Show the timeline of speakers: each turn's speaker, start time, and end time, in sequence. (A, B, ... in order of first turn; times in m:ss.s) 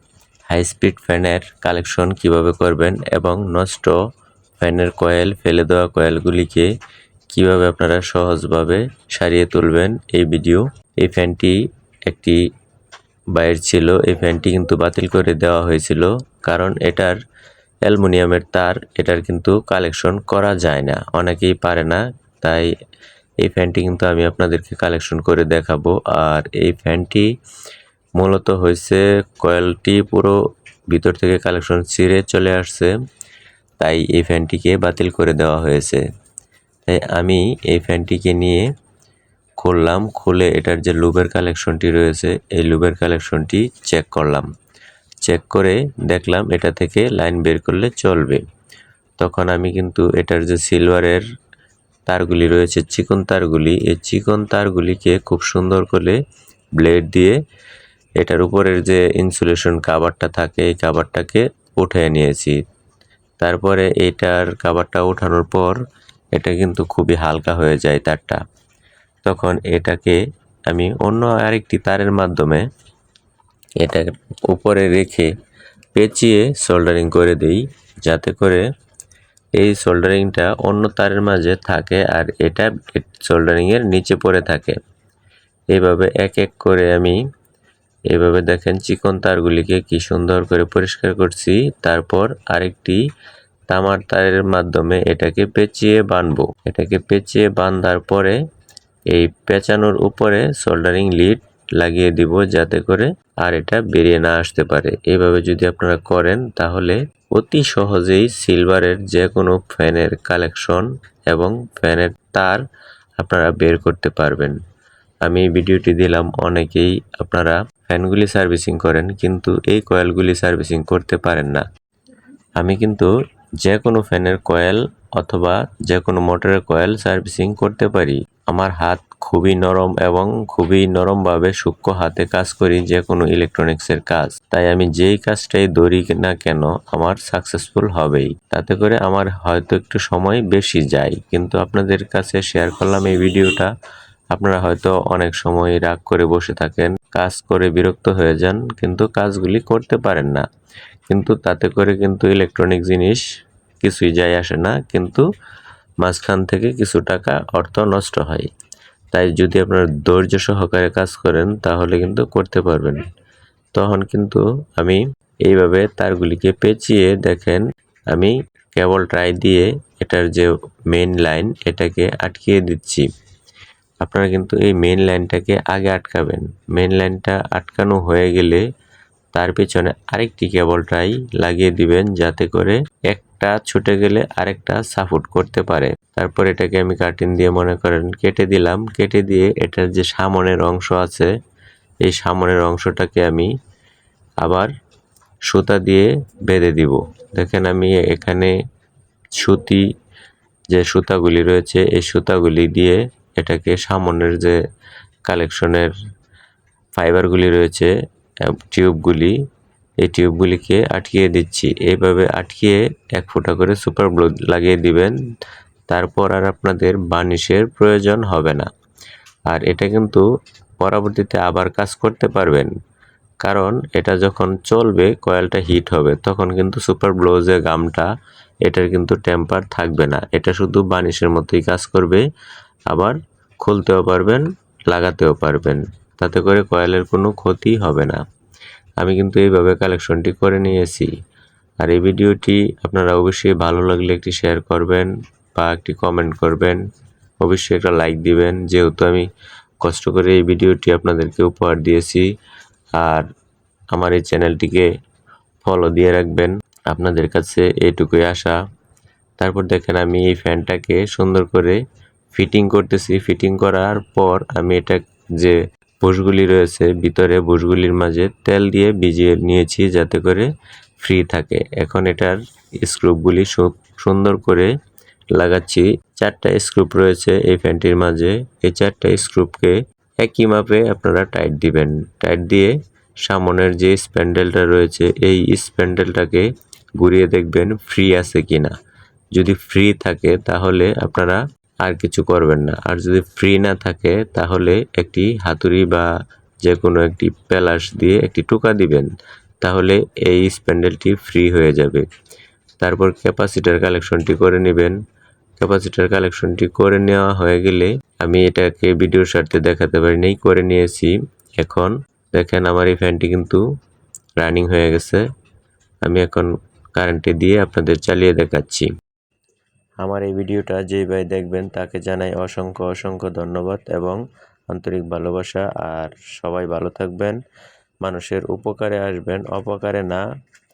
0:00.5-0:04.0 A
0:04.6-0:06.7 A
0:07.3-0:11.6 A
0:12.1-0:12.4 A
0:13.4-0:17.1 A
0:17.8-0:22.7 A
0:23.4-0:27.3 A
0:28.2-0:30.4 A
0:30.9-0:32.9 A
0:33.8-0:36.0 A
0:36.8-0:38.6 A
0:39.6-0:44.5 A
0:45.2-0:48.4 A
0:49.2-0:51.2 A
0:52.1-0:56.2 A
0:56.8-0:57.4 A
0:58.2-1:02.6 A
1:03.4-1:05.8 A
1:06.3-1:08.4 A
1:09.2-1:10.2 A
1:10.7-1:12.7 A
1:13.8-1:15.3 A
1:15.9-1:18.6 A
1:19.6-1:24.8 A
1:25.7-1:27.2 A
1:28.1-1:33.0 A
1:33.7-1:38.4 A
1:39.1-1:52.6 A
1:53.2-1:54.6 A
1:55.2-2:01.6 A
2:02.6-2:03.1 A
2:03.6-2:23.7 A
2:24.3-2:30.4 A
2:31.1-2:33.2 A
2:33.8-2:35.2 A
2:36.0-2:38.5 A
2:39.1-2:43.0 A
2:43.7-2:53.0 A
2:54.0-2:58.6 A
2:59.3-3:11.3 A
3:12.0-3:13.5 A
3:14.4-3:14.7 A
3:15.5-3:18.5 A
3:19.4-3:19.8 A
3:20.7-3:24.6 A
3:25.3-3:25.9 A
3:27.0-3:27.9 A
3:28.5-3:29.3 A
3:30.0-3:35.1 A
3:35.9-3:38.7 A
3:39.5-3:40.2 A
3:40.8-3:42.7 A
3:43.4-3:48.1 A
3:48.6-3:52.2 A
3:52.9-3:58.2 A
3:59.0-4:01.1 A
4:01.8-4:06.8 A
4:07.4-4:09.3 A
4:09.8-4:12.3 A
4:13.0-4:13.3 A
4:13.9-4:14.9 A
4:15.6-4:18.6 A
4:19.4-4:21.8 A
4:22.3-4:30.5 A
4:31.0-4:34.7 A
4:35.4-4:42.7 A
4:43.3-4:46.5 A
4:47.0-4:48.7 A
4:49.3-4:56.1 A
4:56.6-4:59.1 A
4:59.6-5:02.1 A
5:02.8-5:05.0 A
5:05.6-5:13.6 A
5:14.4-5:15.2 A
5:16.0-5:18.9 A
5:20.0-5:24.2 A
5:24.7-5:27.4 A
5:28.0-5:30.2 A